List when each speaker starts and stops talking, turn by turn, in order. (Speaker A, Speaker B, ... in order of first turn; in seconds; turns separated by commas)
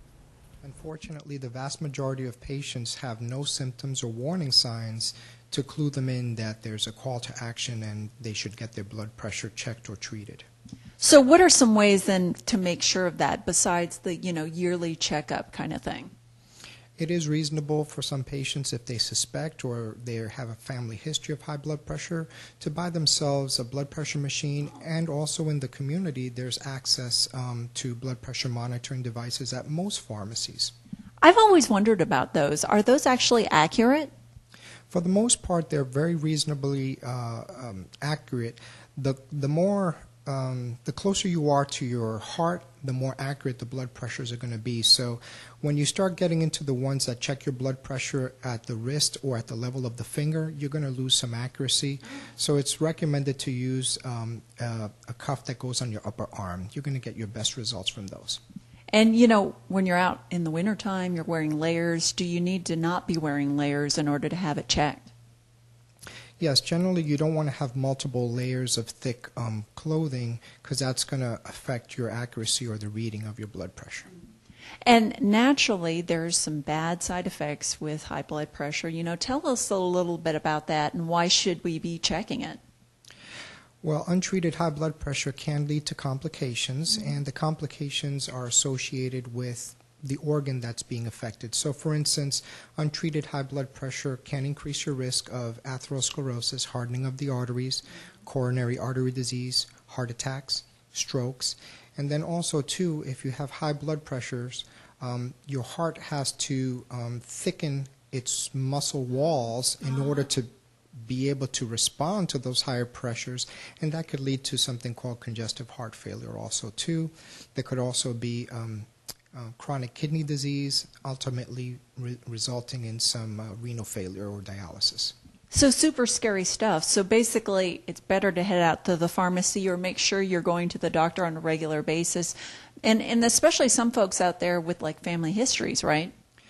Speaker A: 0.6-10.4, Speaker B: 11.0-16.1, Speaker A: 17.0-30.7, Speaker B: 31.2-34.1, Speaker A: 34.9-58.4, Speaker B: 58.9-65.1, Speaker A: 66.4-74.1, Speaker B: 74.8-82.6, Speaker A: 83.8-110.5, Speaker A: 111.0-125.1, Speaker B: 125.5-136.1